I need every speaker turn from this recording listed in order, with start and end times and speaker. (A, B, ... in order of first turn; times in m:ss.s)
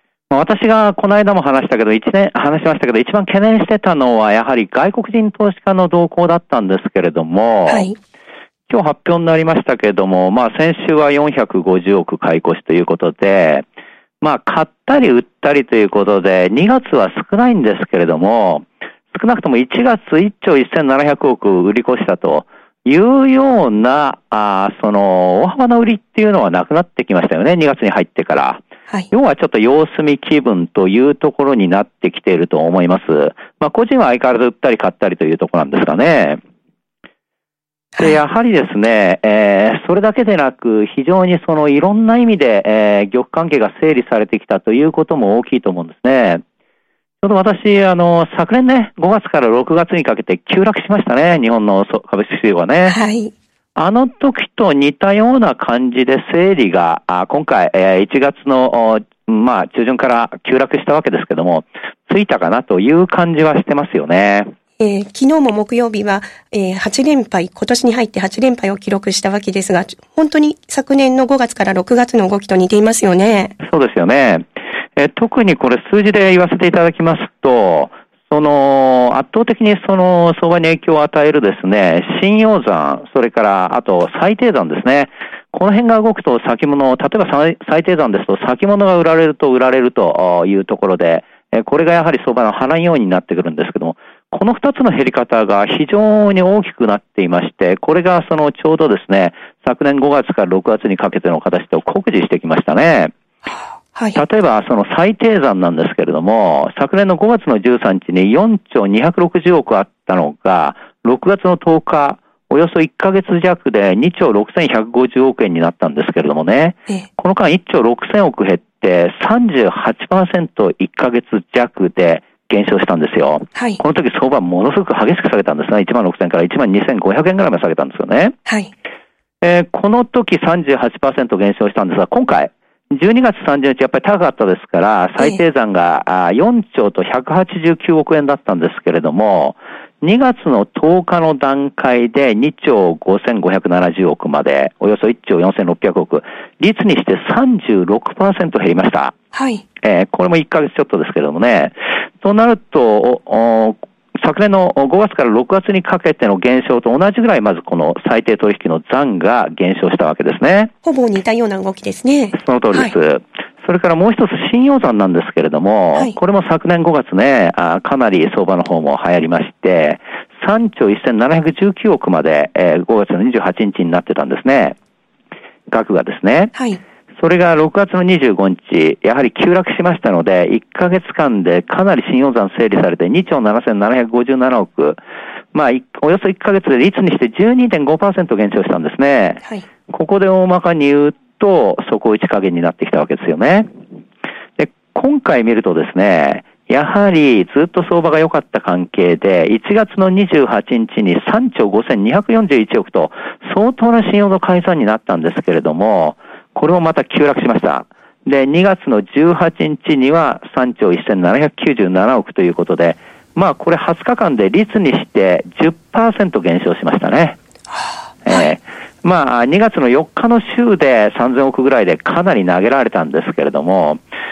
0:00.3-0:07.9 A
0:07.7-0:08.0 B
0:08.7-0:13.6 A
0:14.2-0:36.4 A
0:38.0-0:46.4 A
0:47.2-0:53.0 A
0:52.9-0:53.3 B
0:53.8-1:04.5 A
1:04.8-1:13.5 B
1:13.6-1:14.4 A
1:15.0-1:43.1 A
1:43.5-1:44.2 B
1:44.2-2:08.4 A
2:03.5-2:03.8 B
2:08.4-2:08.7 B
2:09.4-2:29.1 A
2:29.3-2:29.6 B
2:29.8-2:40.7 A
2:40.8-2:42.9 B
2:42.3-2:54.8 A
2:55.7-2:56.5 A
2:56.5-2:56.8 B
2:57.2-3:05.0 A
3:05.5-3:13.7 A
3:14.6-3:37.4 A
3:37.7-3:38.5 B
3:38.2-3:44.0 A